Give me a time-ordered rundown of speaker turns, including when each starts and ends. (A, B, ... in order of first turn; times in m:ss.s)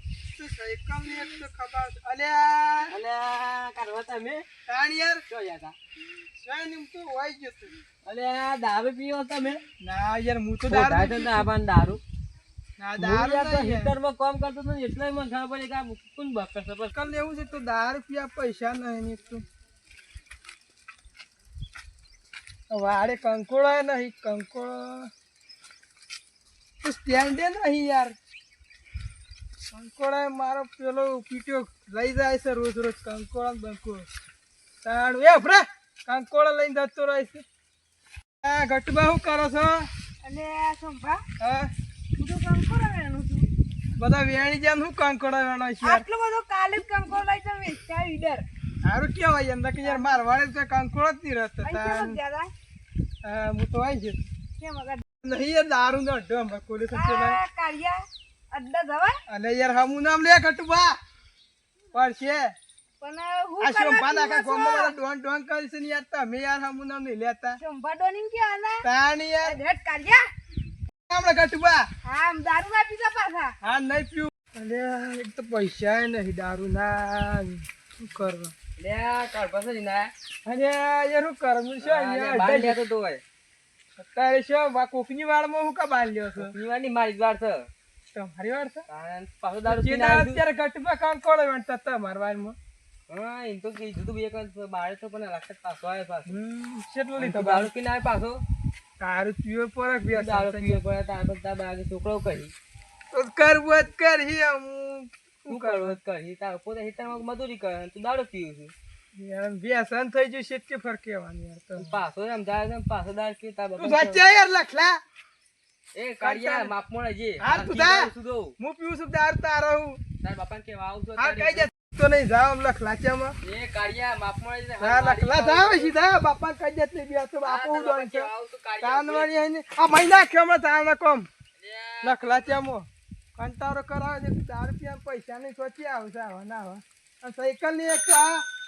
0:00.3-0:02.9 A
0:02.9-0:04.4 B
0:04.6-0:05.2 A
0:05.3-0:05.8 B
0:06.3-0:07.8 A
0:08.0-0:09.6 B
0:09.8-0:11.5 A
0:10.7-0:12.0 B
0:12.8-0:13.9 A
0:13.0-0:16.9 B
0:16.9-0:19.4 A
0:22.7-0:25.1 A
0:26.8-0:28.1 A
0:29.7-0:34.0 A
0:34.8-0:37.4 A
0:38.4-0:39.9 A
0:40.2-0:41.2 C
0:41.4-0:41.7 A
0:42.2-0:43.5 C
0:44.0-0:46.0 A
0:45.8-0:48.4 C
0:48.8-0:52.2 A
0:49.8-0:50.2 C
0:51.6-0:52.5 C
0:53.2-0:54.2 A
0:54.6-0:55.0 C
0:55.2-0:57.4 A
0:56.9-0:58.0 C
0:58.5-0:59.2 C
0:59.3-1:01.0 A
1:01.9-1:02.5 A
1:03.0-1:04.9 C
1:03.6-1:07.6 A
1:07.6-1:08.8 C
1:08.8-1:09.6 A
1:09.4-1:10.2 C
1:11.1-1:11.8 A
1:12.0-1:13.5 C
1:13.6-1:18.5 A
1:18.8-1:20.1 B
1:20.4-1:22.8 A
1:21.8-1:23.2 B
1:24.0-1:26.6 A
1:26.4-1:27.7 B
1:28.1-1:28.8 A
1:28.9-1:30.4 B
1:29.6-1:32.6 A
1:33.1-1:36.3 B
1:36.3-1:37.7 A
1:37.2-1:38.4 B
1:39.0-1:40.8 A
1:40.1-1:42.5 B
1:43.1-1:46.0 A
1:45.5-1:48.7 B
1:49.1-1:51.9 A
1:51.8-1:54.2 B
1:53.8-1:55.0 A
1:55.9-1:58.6 B
1:56.2-1:56.7 A
1:57.4-2:00.0 A
2:00.2-2:01.7 B
2:01.2-2:03.4 A
2:03.4-2:06.0 B
2:04.8-2:08.3 A
2:07.4-2:09.3 B
2:08.8-2:11.3 A
2:11.6-2:12.6 B
2:12.0-2:18.4 A